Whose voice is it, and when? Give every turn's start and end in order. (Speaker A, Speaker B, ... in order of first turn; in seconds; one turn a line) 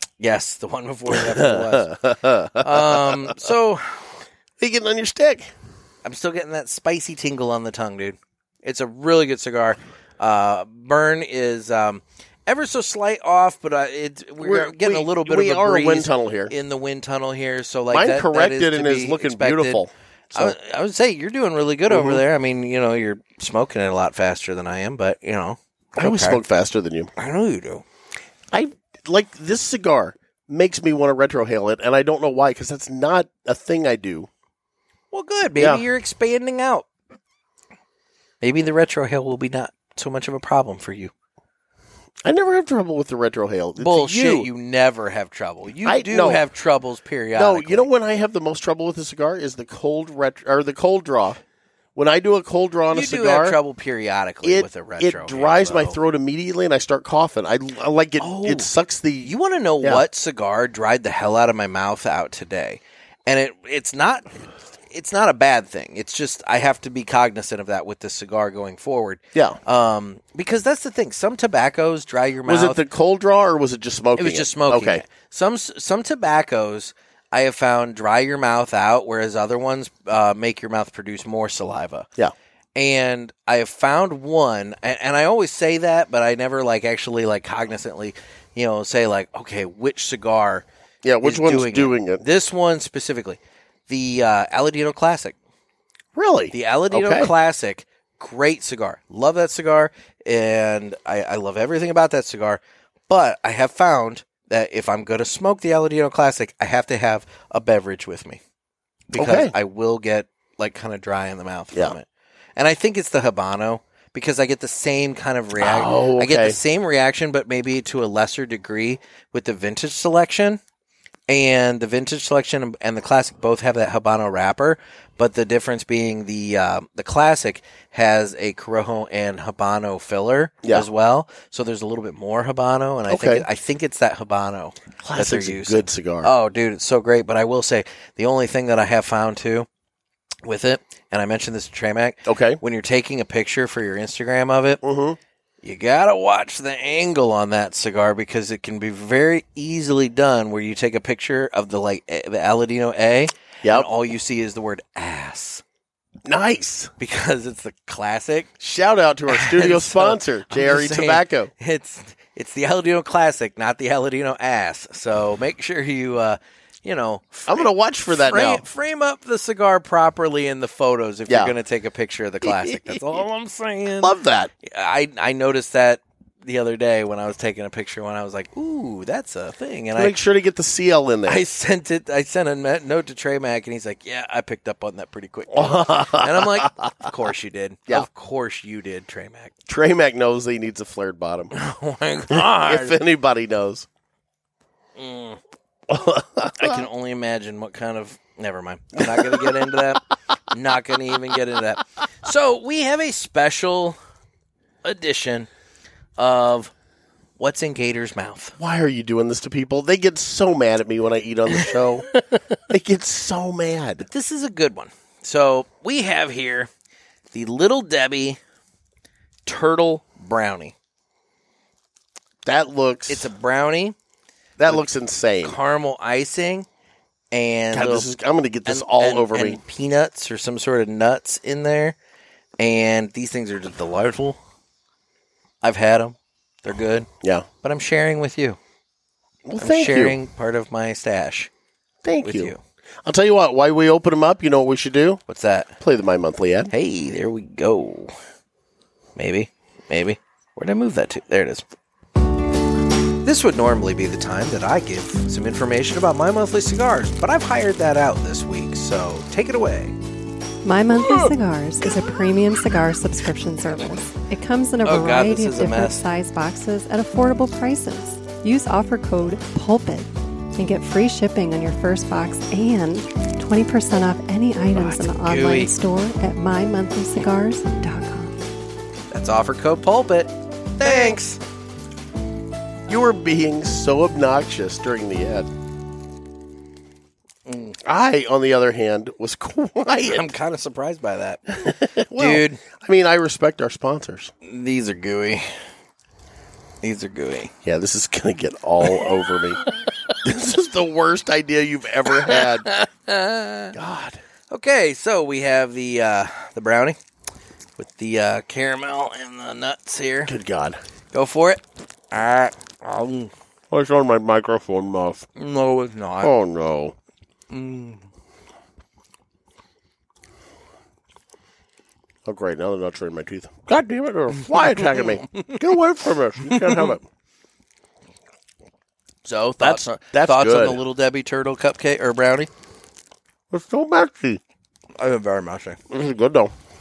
Speaker A: 0.2-1.9
Speaker B: 1.1-3.3
Speaker A: 2.6-4.0
Speaker B: 4.6-5.5
Speaker A: 6.0-26.4
Speaker B: 14.4-16.5
Speaker B: 17.9-20.6
Speaker B: 21.9-22.2
Speaker B: 26.0-27.1
Speaker A: 27.2-27.8
Speaker B: 28.5-34.3
Speaker A: 35.1-36.9
Speaker B: 35.6-35.8
Speaker A: 38.4-41.1
Speaker B: 42.2-44.5
Speaker A: 43.8-47.9
Speaker B: 45.9-46.4
Speaker B: 47.4-51.4
Speaker B: 52.0-53.6
Speaker A: 52.9-56.0
Speaker B: 54.4-60.0
Speaker A: 58.2-58.7
Speaker A: 59.2-64.4
Speaker A: 64.9-72.8
Speaker B: 72.5-75.0
Speaker A: 74.2-82.1
Speaker A: 82.8-90.7
Speaker B: 91.0-92.2
Speaker A: 91.2-95.4
Speaker B: 96.2-97.3
Speaker A: 96.5-108.4
Speaker A: 109.1-112.1
Speaker B: 109.2-109.5
Speaker A: 112.6-120.6
Speaker B: 115.6-116.6
Speaker A: 121.3-139.7
Speaker B: 133.1-133.5
Speaker B: 135.0-136.3
Speaker A: 140.4-144.8
Speaker B: 142.3-142.6
Speaker B: 144.8-145.2
Speaker A: 145.6-155.6
Speaker B: 153.6-153.9
Speaker B: 156.2-156.9
Speaker A: 157.0-158.5
Speaker B: 158.6-161.5
Speaker A: 159.3-180.2
Speaker B: 167.5-168.7
Speaker B: 171.3-171.5
Speaker B: 172.4-173.2
Speaker B: 174.0-174.5
Speaker B: 180.0-181.4
Speaker A: 181.3-189.5
Speaker B: 185.5-187.1
Speaker B: 189.7-191.5
Speaker A: 191.5-193.0
Speaker B: 192.3-193.9
Speaker A: 195.0-195.4
Speaker B: 195.9-196.8
Speaker A: 196.6-204.0
Speaker B: 199.0-199.5
Speaker A: 204.8-205.5
Speaker A: 206.2-206.7
Speaker A: 207.4-208.6
Speaker B: 208.6-212.1
Speaker A: 211.6-212.6
Speaker B: 212.7-214.1
Speaker A: 214.1-216.7
Speaker A: 217.3-218.4
Speaker A: 219.5-220.8
Speaker B: 222.4-223.3
Speaker A: 223.1-224.0
Speaker B: 224.6-225.6
Speaker A: 225.4-226.7
Speaker A: 227.3-228.1
Speaker B: 227.7-229.6
Speaker A: 228.7-232.0
Speaker A: 232.6-234.4
Speaker A: 235.6-237.1
Speaker A: 237.6-238.6
Speaker B: 239.5-240.2
Speaker A: 239.6-241.5
Speaker B: 242.0-242.5
Speaker A: 242.2-242.6
Speaker B: 243.1-245.2
Speaker A: 245.3-245.7
Speaker B: 245.8-246.7
Speaker A: 246.7-248.1
Speaker A: 249.2-251.7
Speaker A: 253.2-260.0
Speaker C: 260.6-278.5
Speaker A: 261.0-261.3
Speaker A: 264.8-266.0
Speaker A: 274.7-275.7
Speaker A: 279.1-281.4
Speaker B: 282.9-285.5
Speaker A: 287.5-287.8
Speaker B: 287.9-290.2
Speaker A: 290.0-291.4
Speaker B: 291.5-294.3
Speaker A: 292.2-292.6
Speaker A: 294.4-295.5
Speaker A: 296.8-297.5
Speaker B: 297.6-299.6
Speaker B: 300.2-302.7
Speaker A: 302.1-303.8
Speaker B: 303.7-304.2
Speaker A: 304.5-307.0
Speaker A: 307.8-310.3
Speaker B: 310.3-310.8
Speaker A: 311.1-313.3
Speaker B: 313.7-315.3
Speaker A: 315.4-316.3
Speaker B: 316.2-316.9
Speaker A: 317.5-318.0
Speaker B: 322.3-327.0
Speaker A: 324.6-325.6
Speaker A: 326.5-326.9
Speaker A: 329.2-332.5
Speaker B: 329.6-330.8
Speaker B: 333.5-334.4
Speaker A: 335.0-335.8
Speaker B: 335.9-336.5